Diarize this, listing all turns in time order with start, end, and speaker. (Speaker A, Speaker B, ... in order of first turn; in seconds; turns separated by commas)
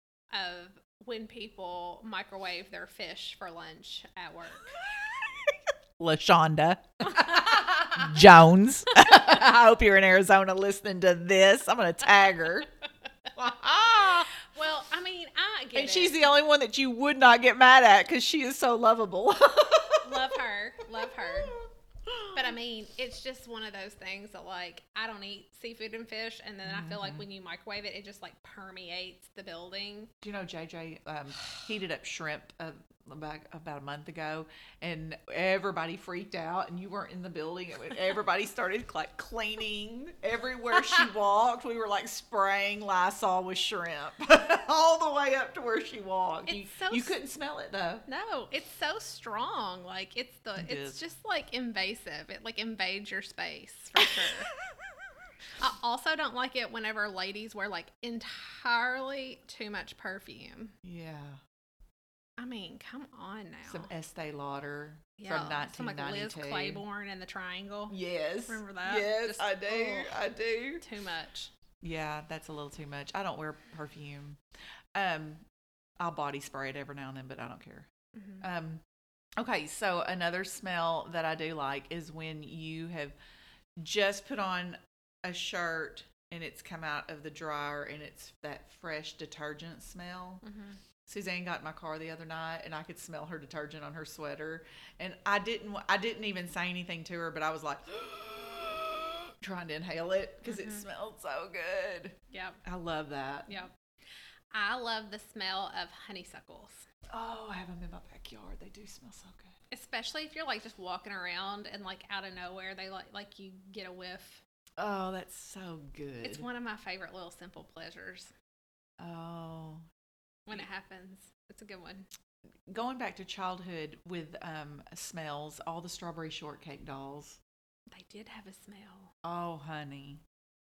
Speaker A: 0.3-4.8, Speaker B: 4.8-12.7, Speaker A: 7.1-8.1, Speaker B: 13.3-14.3, Speaker A: 14.3-16.2, Speaker B: 15.8-20.4, Speaker A: 20.0-21.6, Speaker B: 20.9-22.6, Speaker A: 22.3-30.1, Speaker B: 26.6-27.3, Speaker B: 30.2-48.0, Speaker A: 46.5-47.1, Speaker A: 48.1-54.5, Speaker B: 50.6-51.0, Speaker A: 55.6-60.8, Speaker B: 60.8-61.4, Speaker A: 62.4-63.9, Speaker B: 63.7-66.8, Speaker A: 65.2-68.0, Speaker B: 67.9-70.8, Speaker A: 68.5-70.2, Speaker A: 70.8-71.5, Speaker B: 71.8-74.4, Speaker B: 75.0-75.4, Speaker B: 76.0-77.9, Speaker A: 78.2-78.5, Speaker B: 78.4-78.8, Speaker B: 79.4-83.2, Speaker B: 83.8-90.4, Speaker A: 90.4-90.8, Speaker B: 91.1-103.7, Speaker A: 100.5-100.8, Speaker A: 102.3-102.6, Speaker A: 104.5-106.9, Speaker B: 107.1-109.5, Speaker A: 109.7-114.4, Speaker B: 114.8-116.5, Speaker A: 116.2-118.3, Speaker B: 119.0-119.8, Speaker A: 120.5-122.1, Speaker B: 122.7-127.4, Speaker A: 127.9-129.1, Speaker B: 129.2-130.2